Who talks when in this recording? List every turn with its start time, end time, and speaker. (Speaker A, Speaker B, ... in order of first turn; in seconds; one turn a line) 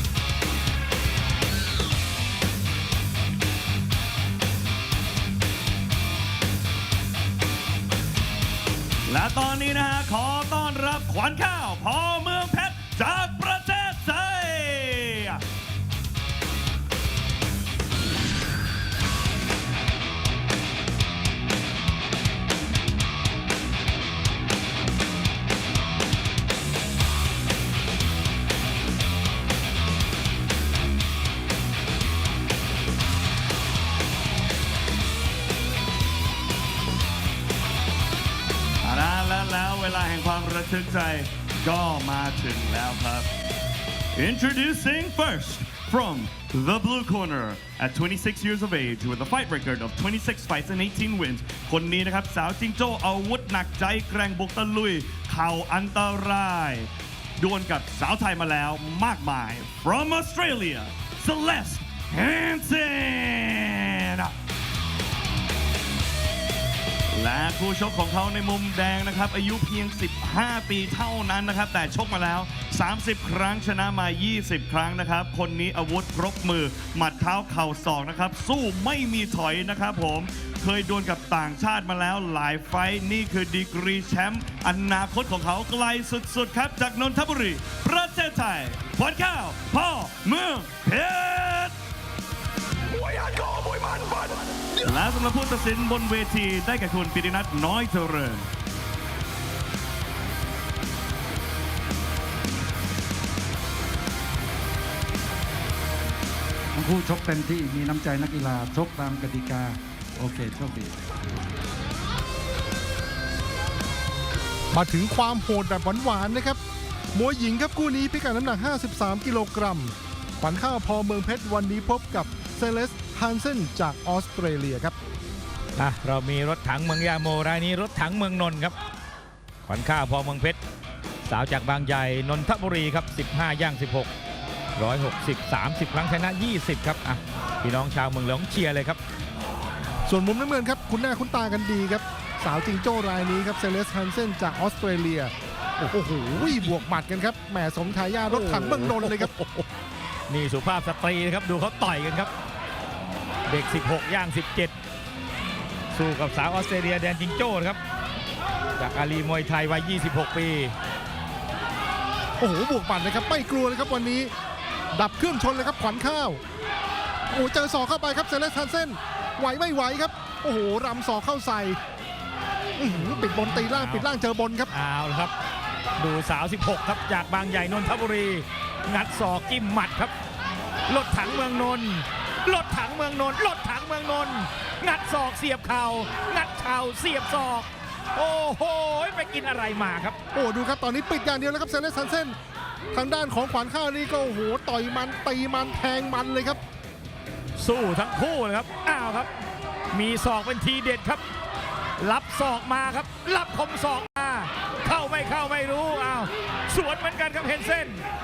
Speaker A: 9.1-15.4
Speaker A: 38.8-43.3
Speaker A: 44.1-64.3
Speaker A: 67.1-91.7
Speaker A: 92.9-98.5
Speaker B: 106.7-111.0
Speaker C: 114.7-116.6
Speaker C: 117.1-125.0
Speaker D: 125.8-128.8
Speaker D: 129.7-130.6
Speaker D: 131.2-134.1
Speaker D: 134.8-139.0
Speaker C: 140.1-149.3
Speaker D: 148.3-149.7
Speaker D: 150.3-152.3
Speaker D: 153.5-154.7
Speaker D: 155.9-157.8
Speaker D: 158.8-160.7
Speaker C: 162.4-164.3
Speaker C: 165.0-166.4
Speaker C: 167.3-171.8
Speaker C: 172.8-174.7
Speaker D: 173.6-174.1
Speaker D: 174.7-175.3
Speaker D: 176.0-180.1
Speaker D: 180.9-190.2
Speaker C: 190.3-192.4
Speaker C: 192.9-196.6
Speaker D: 197.6-199.3
Speaker D: 199.9-201.2
Speaker D: 202.0-208.0